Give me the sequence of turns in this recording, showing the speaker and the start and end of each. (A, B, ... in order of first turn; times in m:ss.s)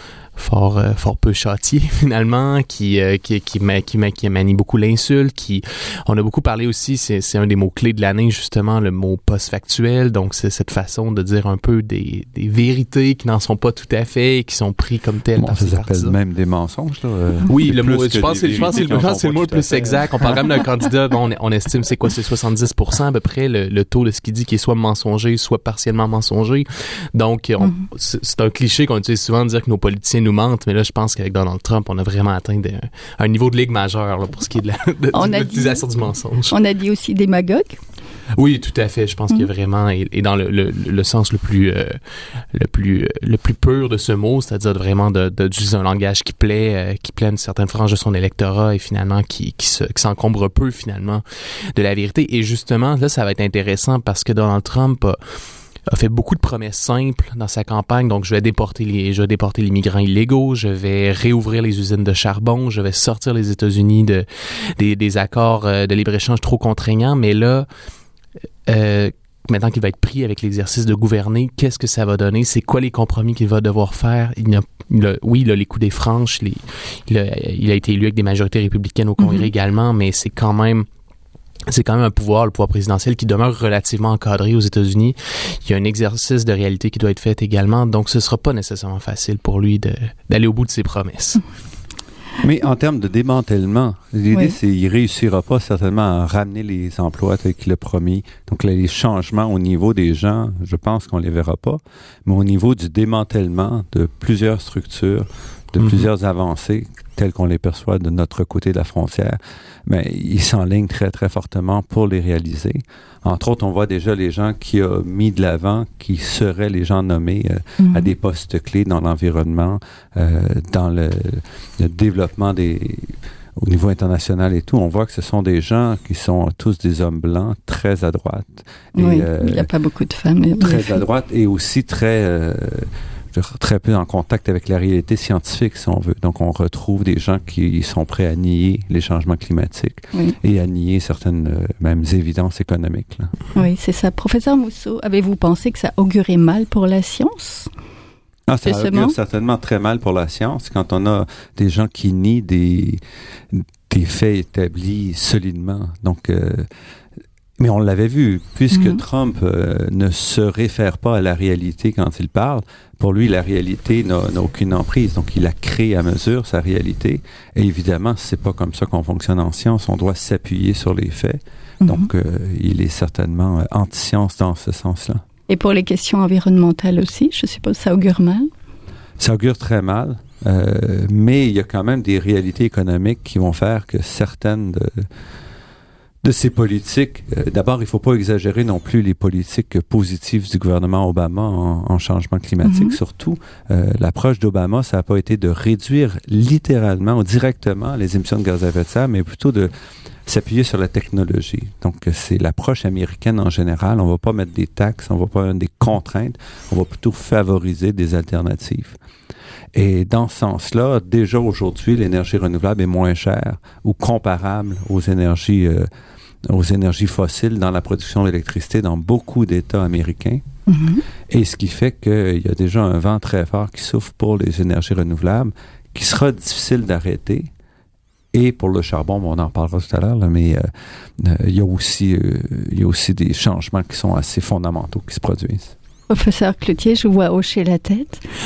0:00.4-0:16.1 A
0:15.4-0:20.6 B
0:17.5-0:36.5 A
0:27.6-0:27.8 C
0:35.1-0:35.8 C
0:36.5-0:37.8 C
0:38.4-0:42.0 A
0:42.5-0:51.2 A
0:51.7-0:55.2 A
0:55.9-1:07.7 A
1:08.7-1:20.8 A
1:19.2-1:19.5 C
1:21.7-1:31.4 A
1:32.4-2:09.7 B
1:57.8-1:58.1 C
2:09.0-2:11.0 C
2:10.6-2:23.3 B
2:23.5-2:27.7 C
2:28.5-2:36.7 B
2:28.6-2:29.1 C
2:37.6-2:55.2 B
2:38.7-2:39.0 C
2:51.8-2:52.1 C
2:55.5-2:58.5 C
2:59.2-3:05.1 B
3:06.2-3:19.7 B
3:12.6-3:13.0 C
3:20.2-3:29.0 B
3:29.7-3:35.9 B
3:36.4-3:40.4 B
3:40.7-3:41.0 C
3:41.3-3:47.5 B
3:48.3-3:55.7 B
3:56.1-3:58.2 C